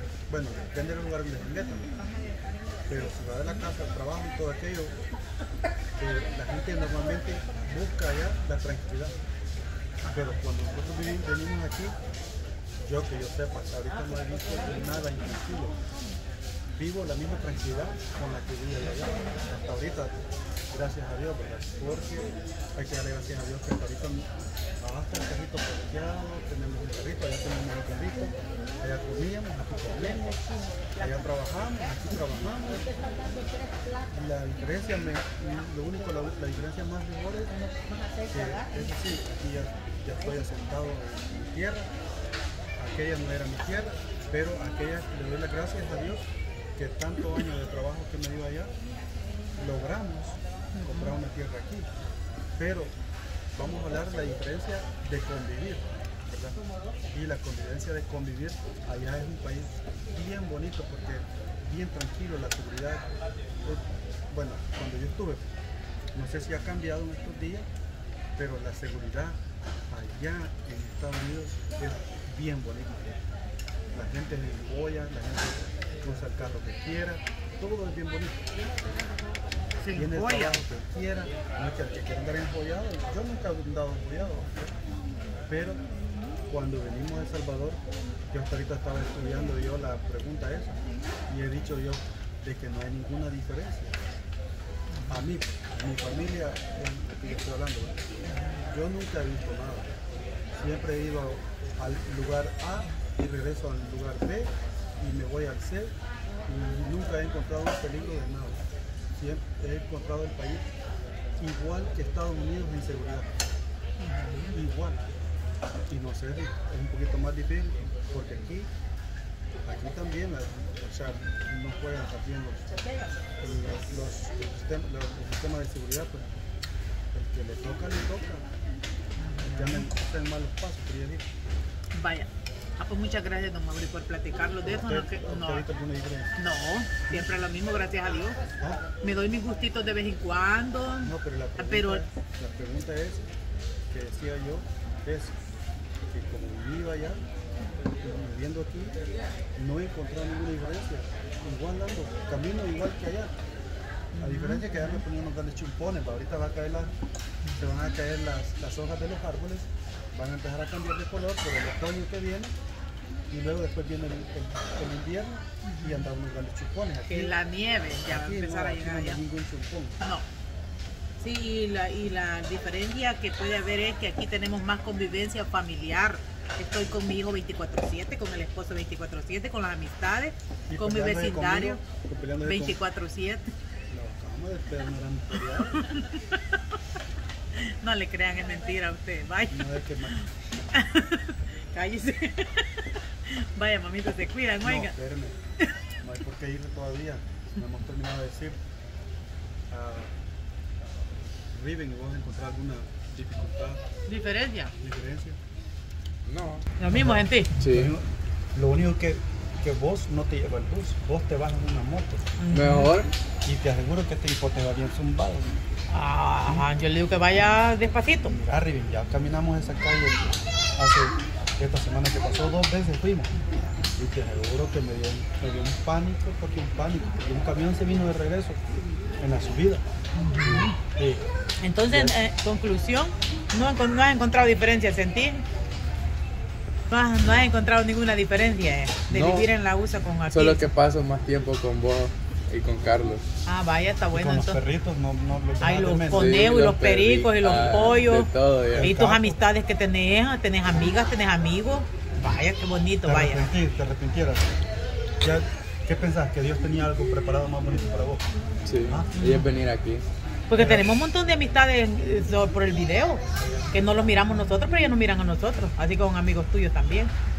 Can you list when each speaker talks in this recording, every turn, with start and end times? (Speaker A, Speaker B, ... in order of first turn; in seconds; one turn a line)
Speaker A: 0.3-2.0
Speaker A: 2.9-5.0
Speaker A: 6.0-9.2
Speaker A: 10.1-11.9
Speaker A: 12.8-15.8
Speaker A: 16.8-30.4
Speaker A: 30.9-32.9
Speaker A: 34.1-37.6
Speaker A: 38.2-41.9
Speaker A: 42.8-46.2
Speaker A: 46.8-48.7
Speaker A: 49.6-51.9
Speaker B: 50.7-51.2
Speaker A: 52.6-53.0
Speaker A: 53.5-56.6
Speaker A: 57.1-63.0
Speaker A: 63.6-65.5
Speaker A: 66.1-67.7
Speaker A: 68.4-73.2
Speaker A: 73.9-78.5
Speaker B: 79.8-80.6
Speaker A: 79.9-84.8
Speaker A: 85.5-85.9
Speaker A: 86.5-94.0
Speaker B: 94.9-95.2
Speaker A: 95.1-98.0
Speaker B: 98.2-98.6
Speaker A: 98.6-99.9
Speaker A: 100.5-106.0
Speaker A: 106.5-108.6
Speaker A: 109.1-110.7
Speaker A: 111.4-113.3
Speaker B: 114.0-114.6
Speaker A: 114.5-115.0
Speaker A: 115.9-118.7
Speaker A: 119.6-122.7
Speaker A: 123.4-126.4
Speaker A: 127.1-128.5
Speaker B: 129.2-129.9
Speaker A: 129.4-131.2
Speaker B: 131.9-135.7
Speaker A: 134.6-136.4
Speaker B: 136.4-138.4
Speaker B: 139.0-142.0
Speaker A: 141.0-143.2
Speaker A: 143.9-145.4
Speaker A: 146.1-147.2
Speaker A: 148.0-149.0
Speaker A: 149.6-153.3
Speaker B: 154.1-155.0
Speaker A: 154.2-157.0
Speaker A: 157.6-162.5
Speaker A: 163.3-167.4
Speaker B: 165.6-166.1
Speaker B: 167.1-169.2
Speaker A: 168.0-170.0
Speaker B: 170.0-170.2
Speaker B: 171.2-181.8
Speaker A: 180.7-182.8
Speaker B: 182.4-183.5
Speaker A: 183.9-185.9
Speaker B: 185.3-186.8
Speaker B: 187.5-194.9
Speaker A: 189.5-190.2
Speaker A: 194.6-195.4
Speaker A: 196.0-198.6
Speaker A: 199.7-200.1
Speaker A: 201.5-203.8
Speaker B: 204.1-204.7
Speaker A: 204.8-205.4
Speaker C: 206.2-206.7
Speaker B: 206.8-207.5
Speaker A: 206.9-212.3
Speaker C: 207.6-207.9
Speaker B: 212.4-212.9
Speaker C: 212.5-213.1
Speaker A: 213.4-215.6
Speaker B: 215.9-218.3
Speaker A: 218.3-223.3
Speaker A: 224.0-229.8
Speaker B: 230.2-230.8
Speaker A: 230.4-231.2
Speaker B: 231.6-235.4
Speaker A: 231.9-232.2
Speaker B: 236.9-240.7
Speaker C: 239.1-239.5
Speaker C: 240.3-243.2
Speaker B: 243.4-244.6
Speaker A: 244.1-246.3
Speaker B: 245.6-253.4
Speaker C: 246.1-248.9
Speaker A: 248.7-249.4
Speaker A: 253.1-254.5
Speaker A: 255.2-258.3
Speaker C: 258.6-260.0
Speaker A: 258.8-259.1
Speaker B: 259.1-259.5
Speaker B: 260.5-267.1
Speaker A: 260.5-261.0